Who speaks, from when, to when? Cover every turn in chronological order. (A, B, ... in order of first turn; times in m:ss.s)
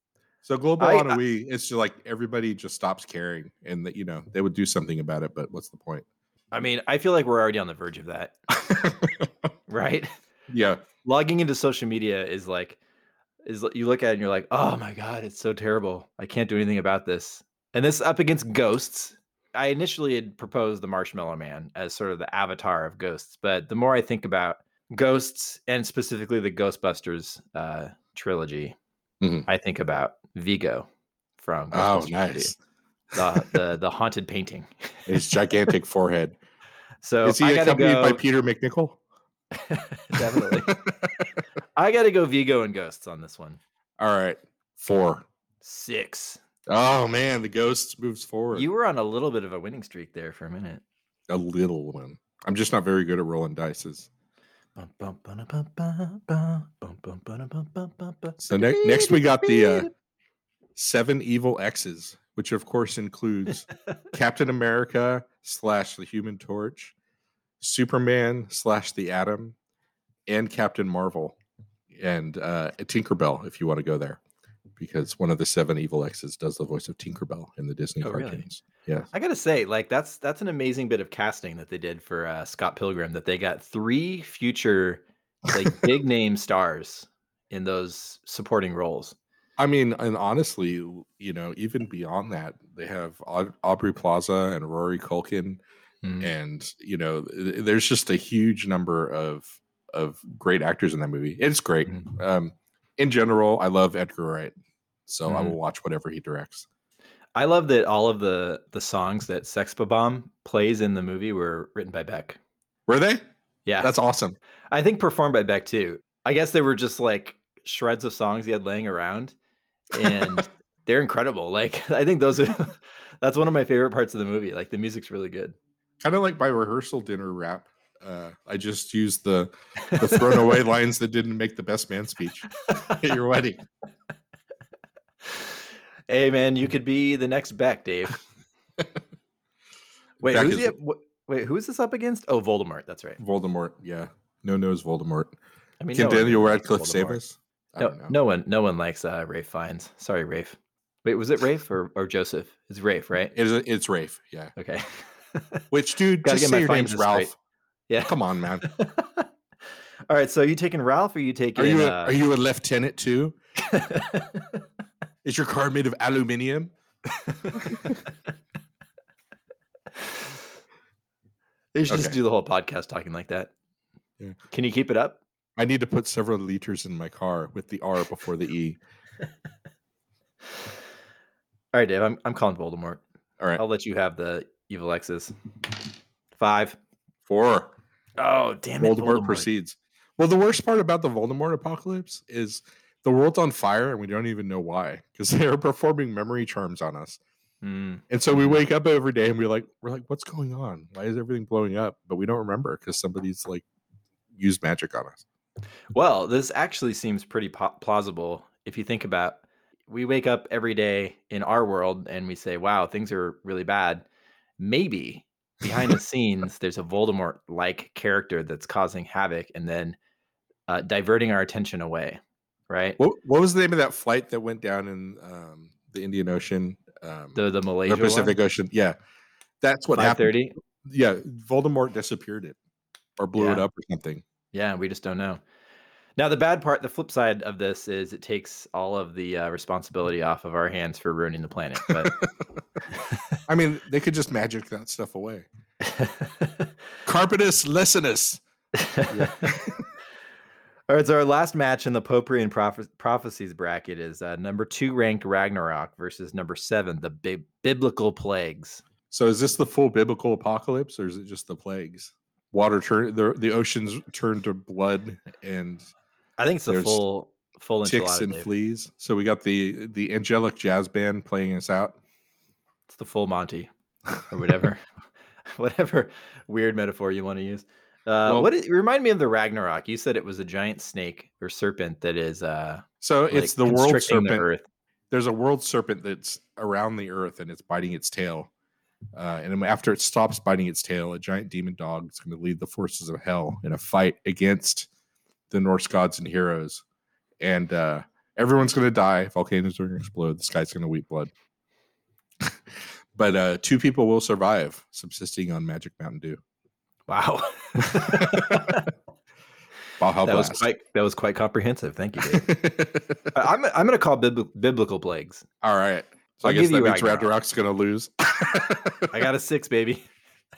0:00.4-0:06.0 A
0:00.8-0:01.2 B
0:06.5-0:08.4 B
0:08.6-0:09.3 A
0:09.7-0:10.1 B
0:10.5-0:10.8 A
0:11.0-0:12.8 B
0:13.4-0:28.8 B
0:29.2-0:29.5 A
0:29.5-0:30.9 B
0:31.4-0:32.5 B
0:31.7-0:32.6 A
0:33.2-0:34.7 B
0:35.1-0:36.4 A
0:37.0-0:38.2 B
0:37.2-0:39.0 A
0:39.5-0:40.8 B
0:40.2-0:41.1 A
0:41.8-0:43.6 B
0:44.0-0:45.2 A
0:45.6-0:46.4 B
0:46.7-0:48.7 A
0:48.5-0:50.8 B
0:51.3-0:54.1 A
0:54.8-0:59.9 B
0:58.4-0:59.9 A
1:00.8-1:06.9 A
1:07.6-1:09.6 A
1:10.3-1:11.4 A
1:11.9-1:14.2 A
1:14.8-1:19.1 A
1:18.0-1:18.4 B
1:19.1-1:29.2 B
1:29.6-1:35.6 A
1:36.0-1:36.3 B
1:36.2-1:44.5 A
1:45.1-1:46.7 A
1:45.3-1:45.6 B
1:47.4-1:52.4 B
1:52.9-1:53.2 A
1:53.7-1:53.9 B
1:53.8-1:54.4 A
1:54.7-1:59.4 B
1:59.9-2:05.6 B
2:00.0-2:00.4 A
2:06.0-2:13.6 A
2:09.9-2:10.5 B
2:16.1-2:18.2 B
2:20.2-2:23.2 B
2:20.2-2:20.7 A
2:23.2-2:25.3 A
2:25.8-2:27.2 B
2:25.9-2:28.2 A
2:27.8-2:33.3 B
2:33.3-2:34.5 A
2:34.6-2:35.6 B
2:35.7-2:37.3 A
2:36.2-2:37.3 B
2:37.9-2:39.3 B
2:38.0-2:38.6 A
2:40.1-2:42.2 B
2:41.6-2:43.4 A
2:43.6-2:44.6 B
2:45.2-2:46.7 A
2:47.5-2:48.0 A
2:51.8-2:53.5 B
2:51.9-2:52.2 A
2:54.5-2:55.2 B
2:55.6-2:58.8 A
3:01.7-3:03.0 B
3:03.6-3:05.3 B
3:06.4-3:06.8 B
3:07.3-3:07.8 A
3:08.2-3:09.5 B
3:08.8-3:17.2 A
3:17.6-3:18.6 B
3:18.1-3:23.7 A
3:24.4-3:25.2 A
3:25.9-3:34.0 B
3:34.6-3:40.0 B
3:40.7-3:43.0 B
3:43.0-3:49.0 A
3:47.4-3:48.4 B
3:49.6-3:52.6 A
3:50.0-3:50.6 B
3:53.2-3:54.2 A
3:53.4-3:53.7 B
3:54.5-3:55.4 B
3:56.2-4:02.2 B
4:01.9-4:02.3 A
4:03.1-4:03.4 B
4:03.5-4:05.5 A
4:05.8-4:06.7 B
4:07.1-4:08.4 A
4:08.8-4:09.6 B
4:09.1-4:09.9 A
4:10.9-4:18.8 B
4:19.1-4:25.8 A
4:26.4-4:28.5 B
4:26.7-4:27.0 A
4:27.8-4:32.0 A
4:32.9-4:33.7 B
4:34.3-4:34.8 B
4:35.6-4:44.6 B
4:38.3-4:38.5 A
4:43.0-4:44.5 A
4:45.1-4:48.5 A
4:49.2-4:54.9 A
4:55.5-4:56.8 A
4:57.4-5:01.3 A
5:03.2-5:06.4 A
5:07.1-5:08.9 B
5:07.8-5:08.8 A
5:10.0-5:10.6 A
5:10.2-5:12.6 B
5:12.2-5:13.3 A
5:13.3-5:15.4 B
5:15.6-5:19.1 A
5:16.4-5:17.3 B
5:19.1-5:20.1 B